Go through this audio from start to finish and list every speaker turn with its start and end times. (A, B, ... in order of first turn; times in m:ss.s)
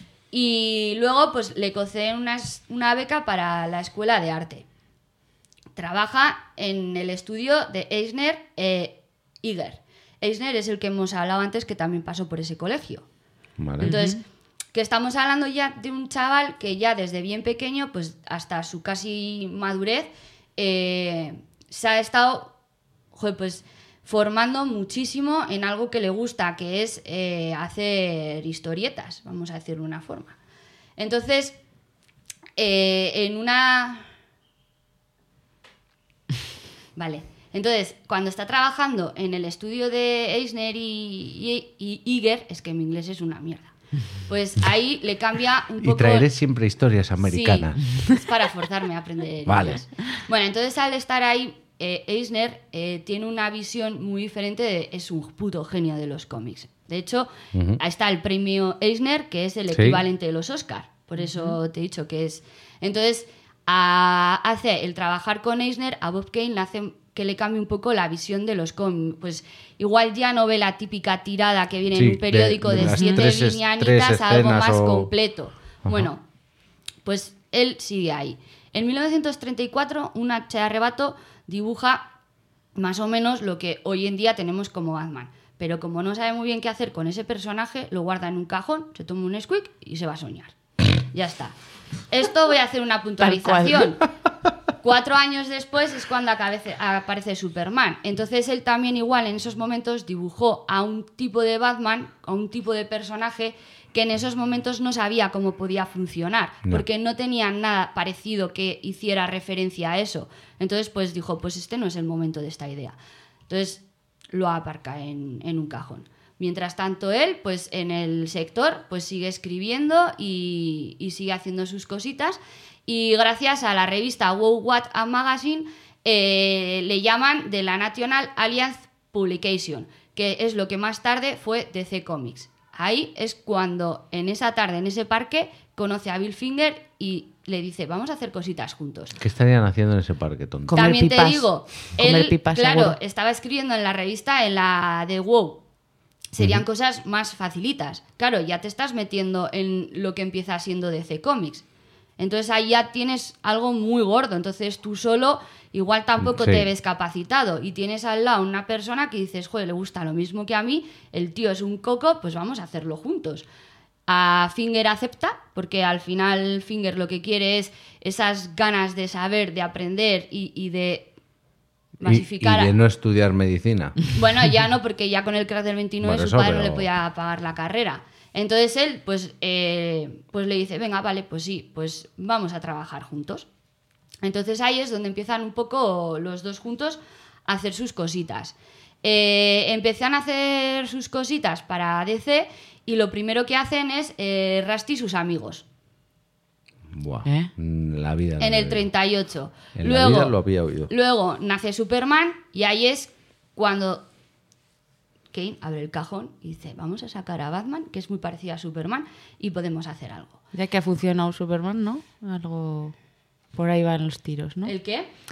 0:00.3-0:04.6 A
0:05.8-0:13.0 A
0:13.6-0:14.0 B
0:13.8-0:14.2 A
0:13.8-0:14.2 C
0:14.7-0:22.5 A
0:23.1-0:30.4 A
0:31.0-0:31.6 A
0:32.6-0:34.1 A
0:37.0-0:43.7 A
0:44.3-0:46.3 A
0:45.8-0:47.8 B
0:47.2-1:16.2 A
0:49.4-0:49.8 B
0:57.5-0:57.8 B
0:59.7-1:00.0 B
1:01.3-1:01.5 C
1:11.9-1:15.1 B
1:12.8-1:13.2 C
1:17.0-1:22.1 A
1:22.8-1:30.5 A
1:31.1-1:31.5 A
1:32.1-1:34.0 A
1:33.2-1:33.9 C
1:34.8-1:53.0 A
1:53.5-2:19.2 A
2:19.2-2:20.8 B
2:20.7-2:23.0 C
2:20.7-2:25.6 A
2:26.3-2:31.6 A
2:32.2-2:43.4 A
2:36.2-2:36.7 B
2:44.1-2:51.1 A
2:52.0-2:52.7 A
2:52.0-2:54.0 B
2:54.1-3:03.5 A
2:56.0-2:56.9 B
3:04.2-3:15.6 A
3:16.9-3:18.8 B
3:17.2-3:17.5 C
3:18.4-3:20.4 A
3:19.8-3:20.9 B
3:20.9-3:24.0 A
3:25.3-3:30.4 A
3:30.5-3:32.9 C
3:33.5-3:34.7 C
3:34.6-3:35.1 A